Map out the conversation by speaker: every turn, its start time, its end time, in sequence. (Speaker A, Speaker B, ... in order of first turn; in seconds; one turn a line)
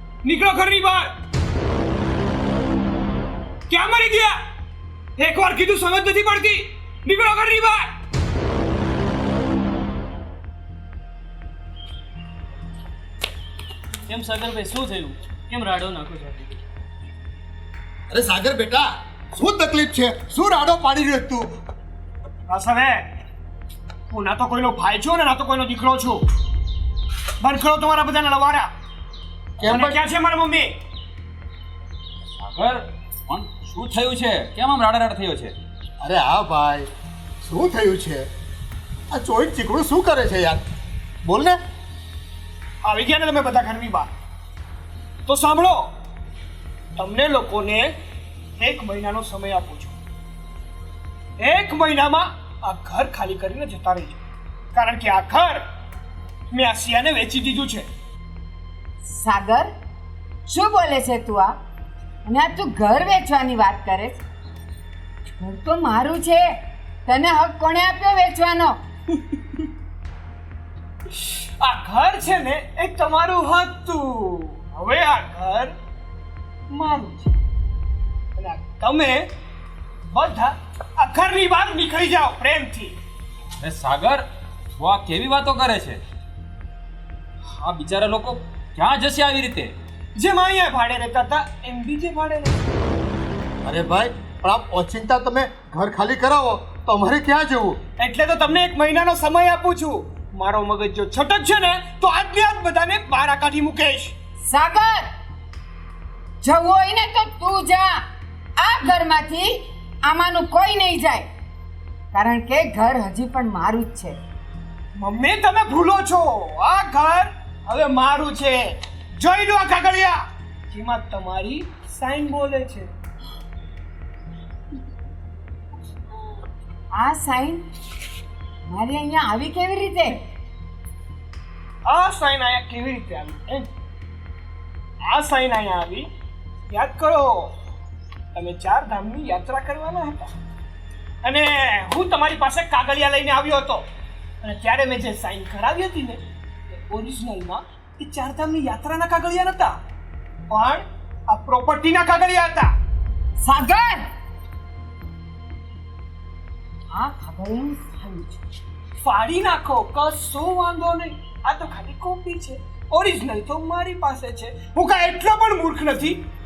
Speaker A: 0.2-1.1
Speaker A: 3.7-4.4
Speaker A: 5.2-7.9
Speaker B: 14.1-16.6
Speaker C: 18.1-21.5
Speaker A: 22.5-23.1
Speaker A: 24.1-26.3
Speaker A: 27.4-28.7
Speaker C: 29.6-30.0
Speaker A: 29.6-30.8
Speaker D: 32.2-35.5
Speaker C: 36.0-36.9
Speaker C: 37.4-38.3
Speaker C: 39.1-40.6
Speaker C: 41.2-41.6
Speaker A: 42.8-44.1
Speaker A: 45.3-45.9
Speaker A: 47.0-48.0
Speaker A: 48.6-50.0
Speaker A: 51.4-54.2
Speaker A: 54.7-55.6
Speaker A: 56.5-57.9
Speaker E: 59.1-59.7
Speaker E: 60.5-61.5
Speaker E: 62.3-64.2
Speaker E: 65.4-66.5
Speaker E: 67.1-68.8
Speaker A: 71.2-75.8
Speaker A: 76.7-77.4
Speaker A: 78.4-79.3
Speaker A: 80.1-83.0
Speaker D: 83.6-84.2
Speaker D: 84.8-86.0
Speaker D: 87.5-89.7
Speaker A: 90.2-92.6
Speaker C: 93.6-97.8
Speaker A: 98.0-104.1
Speaker E: 104.5-105.1
Speaker E: 106.4-108.0
Speaker E: 108.6-111.3
Speaker E: 112.1-114.2
Speaker A: 115.0-122.9
Speaker E: 127.0-127.6
Speaker E: 128.7-130.2
Speaker A: 131.9-133.7
Speaker A: 135.0-136.1
Speaker A: 136.7-137.5
Speaker A: 138.3-140.3
Speaker A: 141.2-143.9
Speaker A: 144.4-146.2
Speaker A: 146.7-149.8
Speaker A: 150.5-152.8
Speaker E: 153.4-154.0
Speaker E: 156.9-158.4
Speaker A: 159.0-166.2